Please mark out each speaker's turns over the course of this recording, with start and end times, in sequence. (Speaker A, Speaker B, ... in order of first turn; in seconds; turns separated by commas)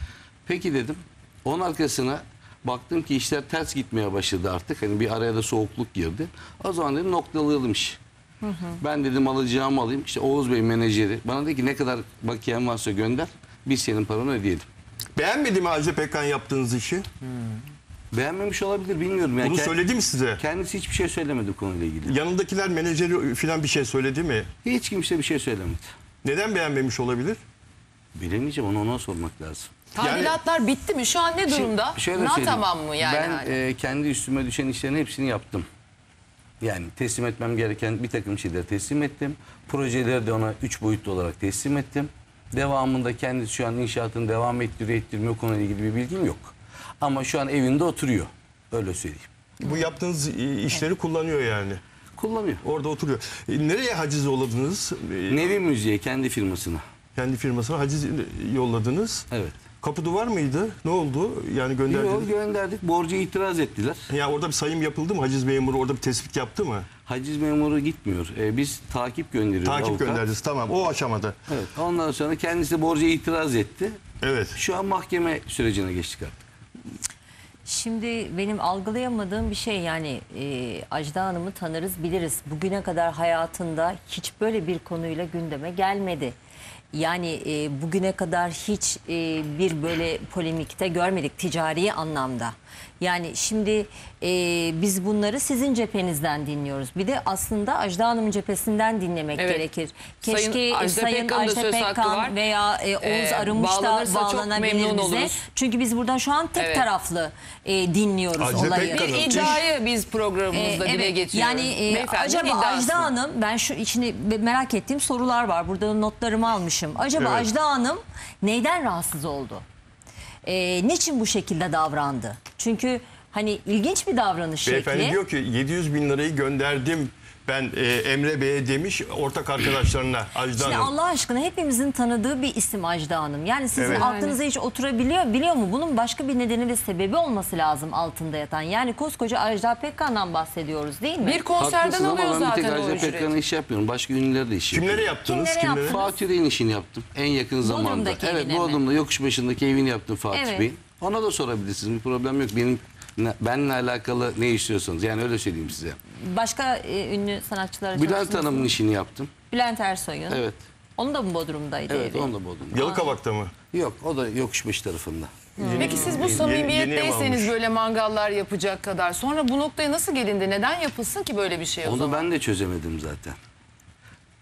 Speaker A: 0.5-8.0, Speaker B: 8.4-8.8, Speaker A: 8.8-14.7, Speaker C: 15.2-17.0, Speaker A: 18.1-19.8, Speaker C: 19.4-20.4, Speaker A: 20.4-22.2, Speaker C: 22.0-24.5, Speaker A: 24.6-25.9, Speaker C: 26.2-27.4, Speaker A: 28.1-29.7, Speaker D: 29.9-33.6, Speaker C: 30.0-30.4, Speaker A: 31.5-35.6, Speaker A: 36.6-49.3, Speaker C: 49.6-51.8, Speaker A: 52.1-52.6, Speaker C: 52.6-55.6, Speaker A: 55.3-56.8, Speaker C: 57.1-59.3, Speaker A: 59.3-59.6, Speaker C: 59.8-62.3, Speaker A: 61.9-64.1, Speaker C: 64.1-66.9, Speaker A: 67.0-70.2, Speaker C: 69.6-71.4, Speaker A: 71.5-73.9, Speaker C: 74.2-74.6, Speaker A: 74.5-76.5, Speaker B: 77.7-86.4, Speaker B: 86.9-109.6, Speaker D: 99.4-99.6, Speaker D: 100.2-102.4, Speaker D: 103.0-105.4, Speaker D: 106.5-106.9, Speaker C: 108.4-109.6, Speaker D: 108.6-113.1, Speaker B: 110.5-119.6, Speaker C: 117.2-117.5, Speaker B: 120.5-125.2, Speaker C: 124.6-130.9, Speaker B: 130.5-141.4, Speaker C: 133.8-134.1, Speaker D: 141.2-143.4, Speaker A: 141.6-145.1, Speaker C: 144.7-146.0, Speaker B: 145.3-146.2, Speaker A: 145.9-156.0, Speaker B: 147.6-148.8, Speaker B: 150.3-150.7, Speaker B: 156.2-158.7, Speaker A: 157.9-159.3, Speaker B: 159.5-160.4, Speaker A: 160.3-160.6, Speaker B: 161.0-163.1, Speaker A: 161.9-162.9, Speaker C: 162.7-163.5, Speaker A: 163.7-165.5, Speaker B: 165.6-166.2, Speaker C: 165.6-167.5, Speaker D: 165.8-172.3, Speaker A: 171.8-173.4